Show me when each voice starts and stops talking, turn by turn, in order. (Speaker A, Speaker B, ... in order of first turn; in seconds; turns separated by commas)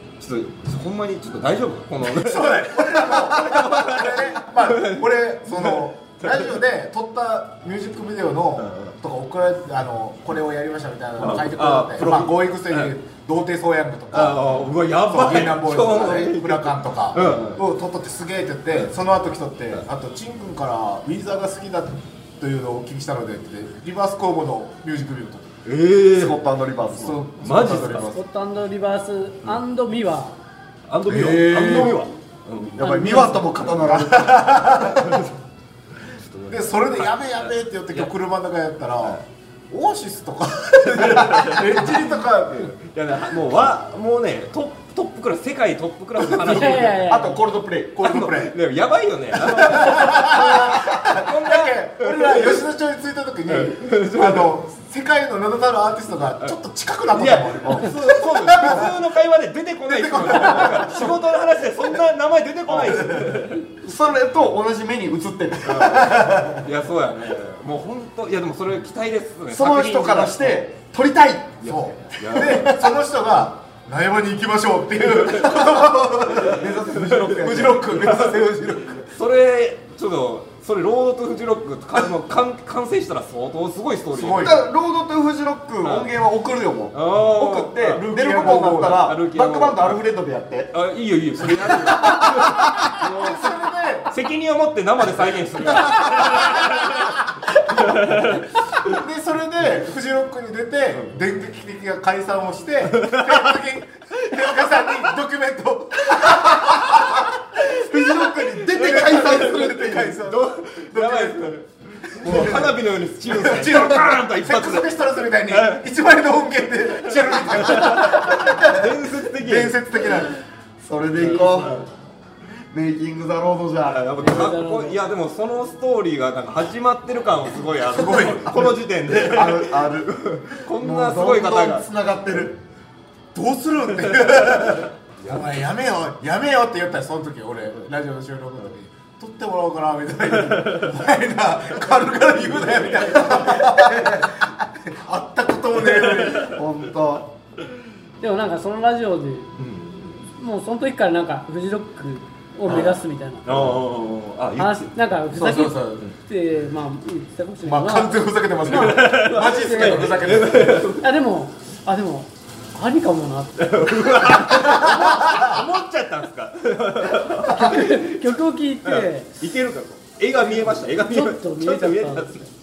Speaker A: 0.2-6.6, Speaker B: 2.0-25.5, Speaker A: 8.6-8.9, Speaker A: 11.2-12.9, Speaker A: 14.1-17.6, Speaker A: 25.6-26.4, Speaker C: 26.1-27.3, Speaker B: 27.0-28.2, Speaker A: 27.4-28.2, Speaker D: 28.1-30.4, Speaker A: 30.9-34.0, Speaker B: 31.1-32.0, Speaker C: 32.7-34.4, Speaker D: 32.8-33.5, Speaker B: 33.8-35.2, Speaker A: 34.6-35.4, Speaker A: 36.1-38.1, Speaker B: 36.5-42.7, Speaker A: 40.8-47.3, Speaker D: 46.4-47.4, Speaker C: 47.0-48.0, Speaker B: 47.9-48.5, Speaker A: 48.0-52.6, Speaker B: 49.3-58.9, Speaker A: 53.5-54.6, Speaker A: 57.1-63.7, Speaker C: 57.6-57.9, Speaker B: 59.9-61.1, Speaker C: 62.7-63.2, Speaker C: 63.7-66.6, Speaker A: 65.6-70.7, Speaker B: 66.2-66.6, Speaker C: 69.5-71.6, Speaker A: 71.6-72.8, Speaker B: 71.6-79.1, Speaker C: 75.4-78.0, Speaker A: 76.9-84.6, Speaker B: 84.1-84.6, Speaker C: 84.4-90.8, Speaker A: 85.8-86.1, Speaker A: 86.9-90.0, Speaker B: 87.8-89.1, Speaker A: 90.7-98.6, Speaker B: 91.4-92.4, Speaker C: 91.5-92.6, Speaker B: 92.9-94.1, Speaker B: 95.9-107.3, Speaker A: 102.9-103.5, Speaker C: 107.7-110.4, Speaker A: 108.4-115.8, Speaker B: 108.7-109.7, Speaker B: 110.9-111.6, Speaker B: 112.1-120.4, Speaker A: 117.2-119.8, Speaker C: 120.8-121.7, Speaker A: 121.1-121.9, Speaker D: 121.2-121.8, Speaker C: 122.7-124.2, Speaker A: 123.8-131.8, Speaker D: 124.2-125.0, Speaker B: 127.9-128.5, Speaker C: 128.4-132.6, Speaker B: 133.3-146.6, Speaker A: 134.2-134.8, Speaker A: 140.4-140.8, Speaker A: 142.4-143.7, Speaker A: 146.0-146.4, Speaker C: 146.5-147.3, Speaker D: 148.2-149.5, Speaker A: 149.6-150.2, Speaker D: 150.3-153.4, Speaker A: 152.7-154.9, Speaker D: 154.6-160.0, Speaker B: 155.3-156.1, Speaker B: 157.6-160.9, Speaker A: 158.6-161.1, Speaker D: 161.0-163.6, Speaker A: 163.6-172.4, Speaker B: 164.7-165.5, Speaker D: 167.5-169.4, Speaker D: 171.0-172.5